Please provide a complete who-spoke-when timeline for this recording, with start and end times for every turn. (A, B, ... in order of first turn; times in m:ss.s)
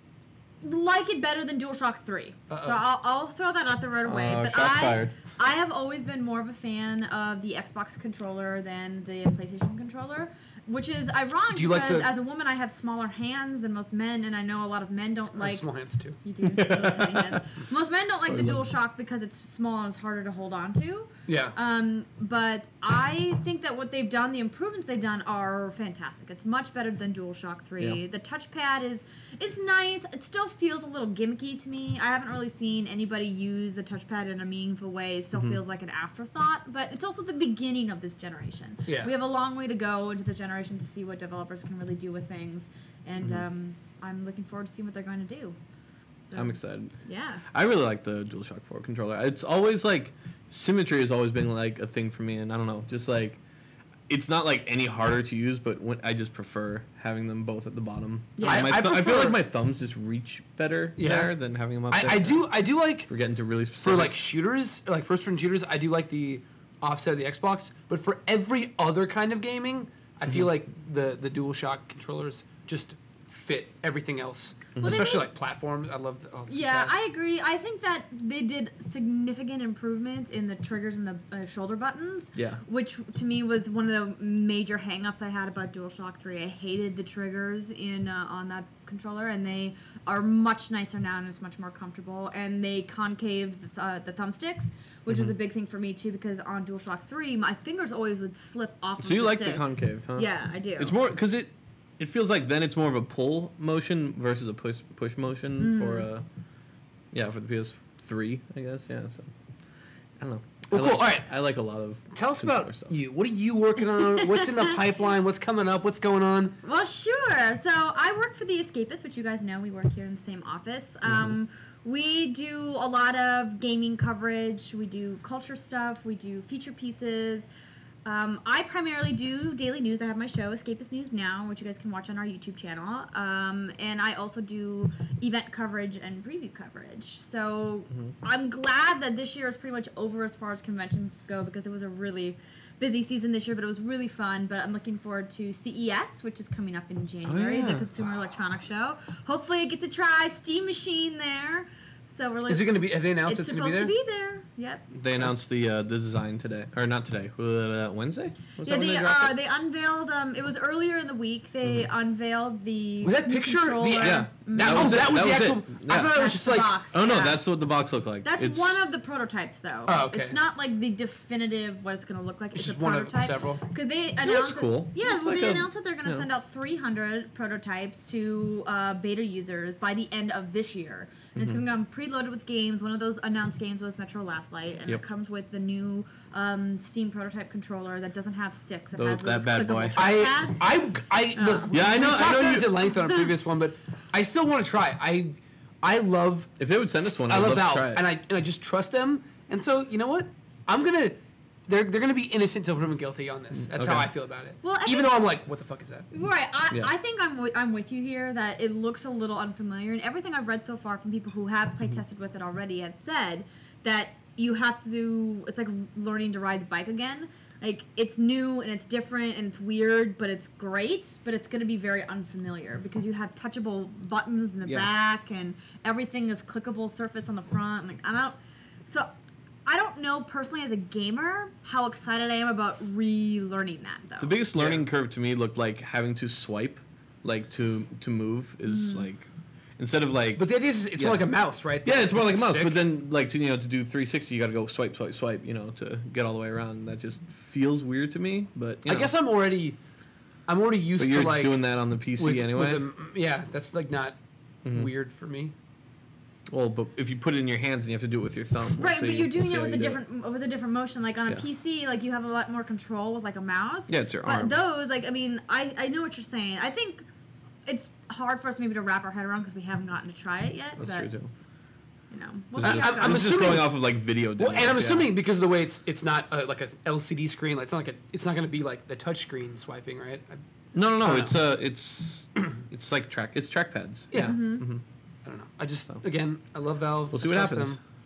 0:00.6-0:15.7 A
0:02.5-0:02.8 B
0:04.0-0:05.1 C
0:11.6-0:12.1 B
0:15.4-0:16.2 B
0:16.2-0:45.6 A
0:16.4-0:17.4 C
0:18.3-0:18.6 C
0:21.3-0:21.5 B
0:35.3-0:35.6 C
0:46.2-0:47.4 A
0:46.4-0:46.9 C
0:47.5-0:53.4 C
0:54.1-1:02.5 C
0:58.4-0:58.7 A
0:58.4-0:59.4 B
1:01.0-1:01.3 B
1:01.9-1:03.1 B
1:03.1-1:04.2 C
1:03.8-1:17.1 B
1:14.8-1:15.1 C
1:14.8-1:15.3 A
1:16.5-1:41.0 A
1:22.4-1:22.6 C
1:35.1-1:35.3 C
1:39.0-1:46.3 C
1:45.6-1:46.1 A
1:47.1-1:49.3 C
1:50.2-1:52.9 C
1:50.7-1:51.3 B
1:52.1-1:56.6 B
1:54.0-1:54.6 A
1:56.6-2:07.5 A
2:01.0-2:01.3 C
2:08.0-2:34.9 A
2:27.2-2:27.9 C
2:32.5-2:33.9 B
2:34.9-2:39.3 C
2:38.6-2:45.3 A
2:43.0-2:46.7 B
2:44.0-2:48.8 C
2:45.9-2:47.4 A
2:48.2-3:11.7 A
2:49.9-2:50.4 B
2:52.6-2:53.6 B
2:54.2-2:56.2 C
3:09.0-3:10.1 C
3:10.0-3:21.2 B
3:11.7-3:12.9 C
3:16.6-3:18.0 C
3:21.7-3:26.1 B
3:23.7-3:24.1 C
3:24.6-3:25.2 A
3:26.1-3:49.1 A
3:49.7-3:54.4 A
3:54.2-3:59.3 C
3:54.6-3:54.8 B
3:58.7-3:59.1 A
3:59.8-4:01.3 C
4:00.4-4:02.8 B
4:01.8-4:09.1 C
4:08.9-4:09.8 B
4:10.5-4:14.2 B
4:11.0-4:12.8 C
4:14.7-4:15.5 B
4:16.5-4:20.0 C
4:18.8-4:27.0 A
4:23.9-4:24.6 C
4:27.7-4:31.1 A
4:30.8-4:31.3 C
4:32.1-4:33.6 A
4:32.6-4:35.1 C
4:32.6-4:40.4 B
4:40.7-4:44.8 C
4:41.0-4:41.4 B
4:44.1-4:44.4 B
4:44.2-4:44.6 A
4:45.2-4:47.8 B
4:47.1-4:47.8 C